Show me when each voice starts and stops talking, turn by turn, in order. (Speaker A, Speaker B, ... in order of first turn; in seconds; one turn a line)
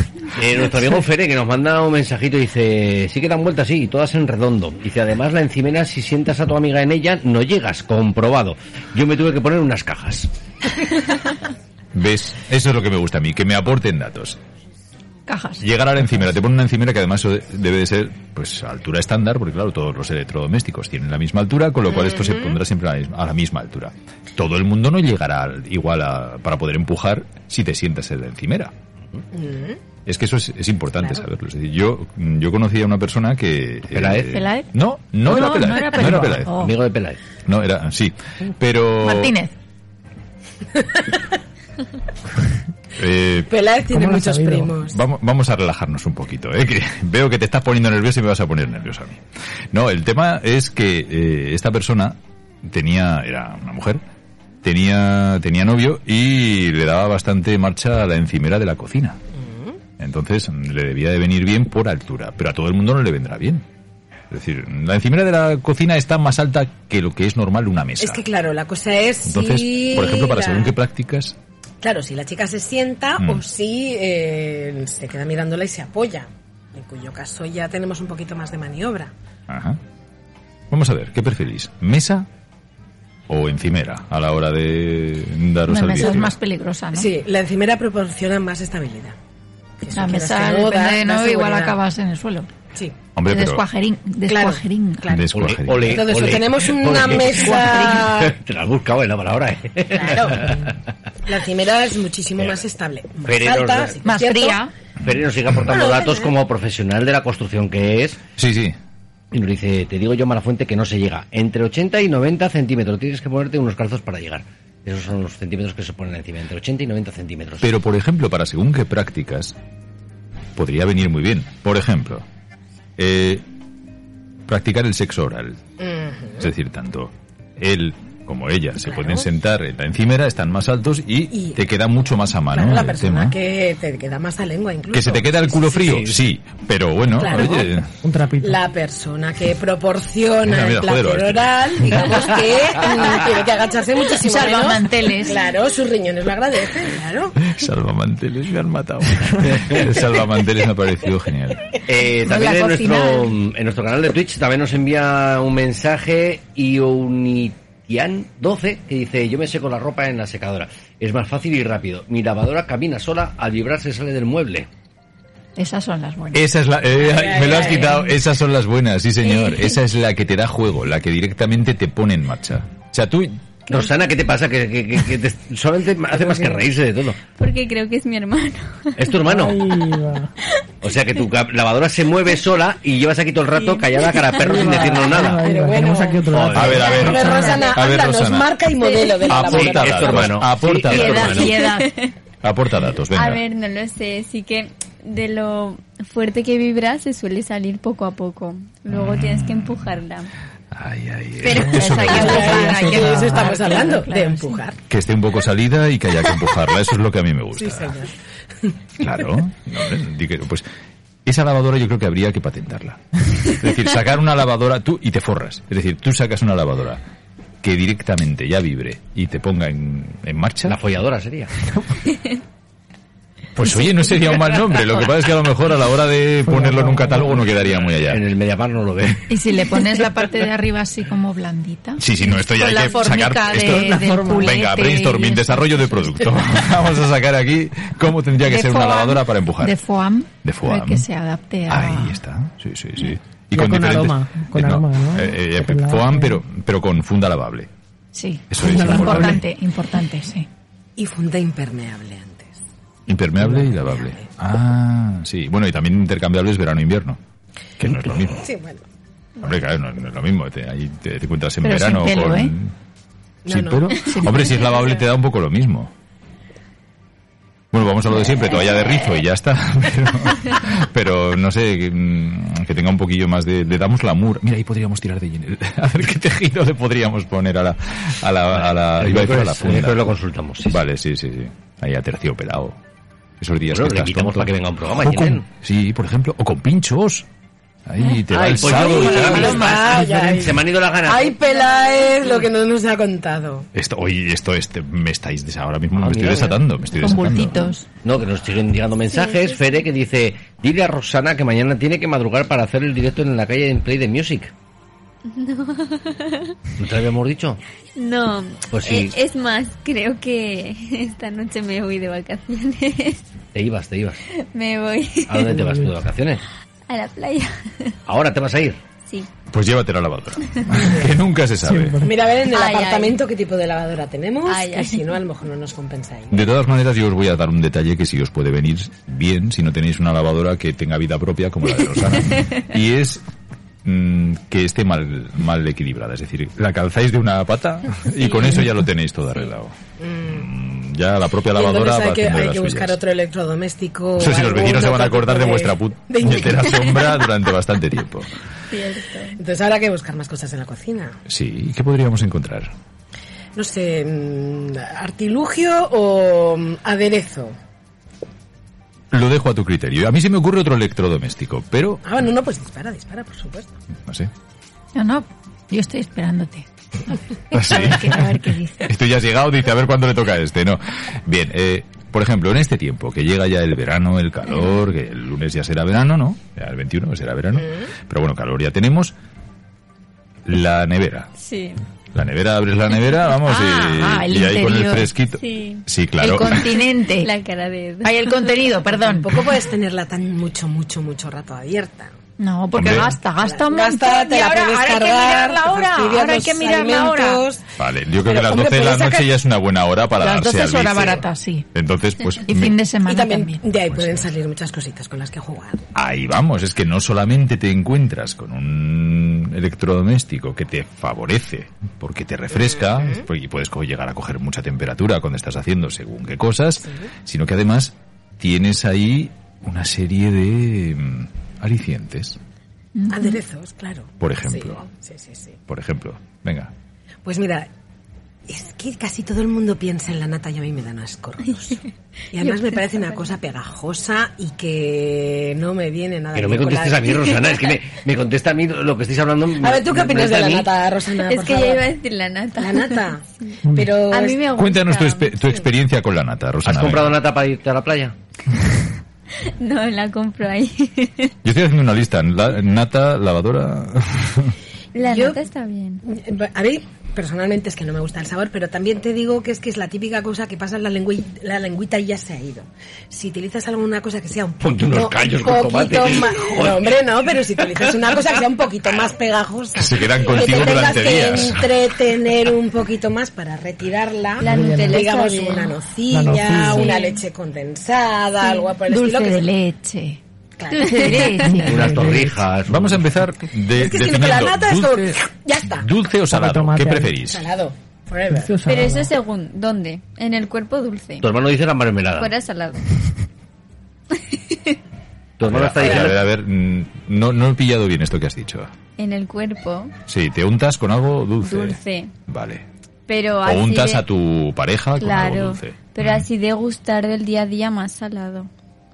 Speaker A: 0.4-10.3
Speaker B: 11.9-14.4
Speaker C: 15.3-15.6
Speaker B: 15.6-28.7
Speaker D: 21.9-22.6
Speaker D: 29.3-29.8
Speaker B: 30.1-36.5
Speaker A: 33.9-34.4
Speaker C: 34.3-34.7
Speaker C: 35.2-36.8
Speaker A: 36.0-37.2
Speaker B: 37.5-39.3
Speaker C: 39.0-39.5
Speaker D: 40.8-41.2
Speaker B: 43.0-43.5
Speaker D: 43.5-45.0
Speaker E: 43.9-44.8
Speaker B: 44.9-54.0
Speaker B: 54.6-59.2
Speaker D: 59.3-59.8
Speaker B: 60.0-63.6
Speaker B: 64.3-68.2
Speaker D: 68.0-70.7
Speaker B: 69.3-71.4
Speaker D: 71.8-79.1
Speaker B: 79.5-79.8
Speaker B: 80.7-82.3
Speaker B: 83.3-86.3
Speaker C: 85.7-87.1
Speaker D: 86.9-89.2
Speaker D: 89.8-91.8
Speaker C: 89.9-92.5
Speaker B: 93.2-93.6
Speaker C: 93.3-95.1
Speaker D: 94.3-98.3
Speaker B: 95.1-96.3
Speaker A: 95.3-100.7
Speaker C: 97.2-98.2
Speaker D: 99.9-100.6
Speaker D: 101.2-104.6
Speaker A: 103.2-104.0
Speaker C: 104.0-104.7
Speaker B: 105.0-105.6
Speaker A: 105.0-108.2
Speaker D: 105.7-106.3
Speaker B: 108.4-108.8
Speaker A: 109.3-117.7
Speaker B: 117.6-119.6
Speaker B: 120.6-122.3
Speaker B: 123.0-123.4
Speaker B: 124.5-125.6
Speaker D: 125.8-126.5
Speaker B: 126.4-133.4
Speaker D: 128.9-129.3
Speaker D: 131.3-131.6
Speaker D: 132.5-136.0
Speaker B: 134.9-137.9
Speaker A: 135.8-136.1
Speaker D: 137.2-137.8
Speaker E: 138.0-138.6
Speaker D: 138.4-147.4
Speaker B: 140.4-142.2
Speaker C: 144.1-145.4
Speaker B: 147.4-151.6
Speaker A: 151.9-164.7
Speaker C: 152.2-153.4
Speaker C: 165.6-166.5
Speaker B: 166.3-173.4
Speaker D: 166.9-168.0
Speaker C: 167.8-168.1
Speaker F: 169.3-169.7
Speaker A: 173.7-177.2
Speaker E: 176.3-176.6
Speaker F: 177.4-179.1
Speaker A: 179.0-179.7
Speaker E: 179.2-180.3
Speaker A: 180.8-185.4
Speaker F: 183.6-184.6
Speaker E: 184.4-187.5
Speaker D: 185.4-190.3
Speaker A: 186.3-187.1
Speaker B: 186.6-188.6
Speaker F: 186.8-187.8
Speaker F: 188.8-189.3
Speaker B: 189.3-191.6
Speaker A: 189.5-191.6
Speaker F: 190.9-192.1
Speaker C: 191.3-191.9
Speaker B: 192.4-193.4
Speaker F: 193.1-200.3
Speaker B: 198.9-200.0
Speaker B: 200.7-202.8
Speaker C: 201.5-204.6
Speaker E: 201.6-203.8
Speaker F: 202.0-202.4
Speaker D: 202.1-204.8
Speaker B: 204.9-208.0
Speaker D: 207.6-208.1
Speaker B: 209.0-210.7
Speaker B: 211.2-217.0
Speaker B: 217.6-220.8
Speaker A: 220.7-221.5
Speaker B: 223.6-228.2
Speaker E: 226.4-227.4
Speaker A: 227.6-229.7
Speaker C: 229.3-236.5
Speaker B: 232.0-239.8
Speaker E: 233.6-234.6
Speaker C: 238.4-242.2
Speaker B: 240.4-241.1
Speaker B: 241.7-247.7
Speaker E: 243.5-246.4
Speaker C: 248.2-250.5
Speaker B: 248.5-249.4
Speaker E: 248.6-249.4
Speaker D: 251.0-252.6
Speaker B: 253.1-257.2
Speaker E: 253.4-253.7
Speaker D: 253.8-254.3
Speaker B: 257.8-258.4
Speaker D: 258.3-258.9
Speaker B: 259.4-262.7
Speaker C: 261.6-262.5
Speaker D: 263.4-264.0
Speaker B: 263.5-265.9
Speaker C: 264.0-264.8
Speaker B: 267.7-280.1
Speaker A: 278.6-280.8
Speaker B: 280.7-282.8
Speaker B: 283.4-287.3
Speaker A: 283.7-285.4
Speaker B: 287.9-289.7
Speaker A: 288.3-291.4
Speaker D: 288.8-293.7
Speaker C: 288.8-290.1
Speaker F: 291.5-292.4
Speaker B: 293.7-297.7
Speaker A: 296.0-296.6
Speaker C: 297.0-297.9
Speaker A: 298.0-304.5
Speaker F: 299.1-299.8
Speaker F: 305.3-306.6
Speaker A: 306.8-307.6
Speaker F: 308.0-313.2
Speaker A: 308.7-309.1
Speaker A: 313.6-314.2
Speaker F: 314.3-315.5
Speaker A: 315.3-316.4
Speaker E: 315.5-315.9
Speaker F: 316.9-317.9
Speaker A: 318.1-318.8
Speaker B: 319.5-322.0
Speaker F: 320.5-320.7
Speaker E: 321.6-322.2
Speaker D: 322.0-326.4
Speaker F: 322.5-323.2
Speaker F: 324.5-325.1
Speaker B: 326.3-333.2
Speaker F: 332.3-332.6
Speaker B: 333.8-343.0
Speaker D: 340.0-340.4
Speaker D: 341.5-347.1
Speaker B: 344.2-348.3
Speaker F: 348.7-349.4
Speaker D: 349.4-351.2
Speaker B: 351.3-352.7
Speaker D: 353.6-357.6
Speaker B: 359.1-362.0
Speaker D: 362.0-363.8
Speaker B: 364.0-364.3
Speaker C: 365.0-368.9
Speaker B: 367.5-368.3
Speaker B: 368.8-379.1
Speaker D: 377.6-377.9
Speaker B: 380.5-381.3
Speaker F: 381.4-381.8
Speaker B: 382.1-386.8
Speaker C: 383.4-385.1
Speaker F: 385.4-385.9
Speaker C: 386.2-387.3
Speaker F: 387.1-388.6
Speaker C: 388.0-389.4
Speaker D: 388.9-392.1
Speaker C: 392.4-397.4
Speaker B: 392.8-393.1
Speaker D: 393.4-397.6
Speaker B: 397.8-402.8
Speaker D: 398.2-399.3
Speaker C: 400.2-401.6
Speaker C: 402.5-403.6
Speaker D: 403.1-405.9
Speaker B: 403.9-404.3
Speaker B: 405.9-422.4
Speaker D: 412.8-413.2
Speaker D: 416.8-417.1
Speaker C: 423.0-423.4
Speaker D: 423.1-425.6
Speaker B: 424.2-424.9
Speaker B: 425.7-426.7
Speaker D: 427.2-427.7
Speaker D: 428.5-437.4
Speaker F: 432.4-433.2
Speaker A: 436.4-440.7
Speaker D: 439.6-441.9
Speaker F: 441.2-443.6
Speaker D: 442.6-444.4
Speaker E: 443.6-443.9
Speaker F: 444.1-445.4
Speaker B: 444.5-447.2
Speaker A: 446.6-448.1
Speaker F: 449.4-451.3
Speaker B: 451.4-454.6
Speaker F: 454.9-456.0
Speaker D: 455.0-455.4
Speaker D: 456.0-479.5
Speaker A: 464.6-467.0
Speaker B: 469.8-471.8
Speaker F: 474.4-475.8
Speaker E: 474.4-475.1
Speaker E: 476.1-477.0
Speaker F: 476.5-477.2
Speaker C: 478.9-480.2
Speaker D: 480.6-481.3
Speaker C: 480.7-482.0
Speaker F: 480.9-481.6
Speaker E: 481.4-482.4
Speaker A: 481.6-483.2
Speaker B: 482.7-485.2
Speaker D: 483.8-485.9
Speaker B: 485.7-487.4
Speaker E: 486.3-487.2
Speaker D: 487.2-488.5
Speaker E: 488.3-489.1
Speaker F: 488.6-491.3
Speaker A: 491.2-492.3
Speaker F: 492.2-492.9
Speaker F: 494.2-494.8
Speaker A: 495.4-496.2
Speaker B: 495.4-498.7
Speaker D: 495.8-496.1
Speaker F: 499.0-499.9
Speaker B: 500.1-502.6
Speaker F: 501.4-502.1
Speaker F: 503.1-504.1
Speaker B: 503.4-506.3
Speaker F: 505.0-508.5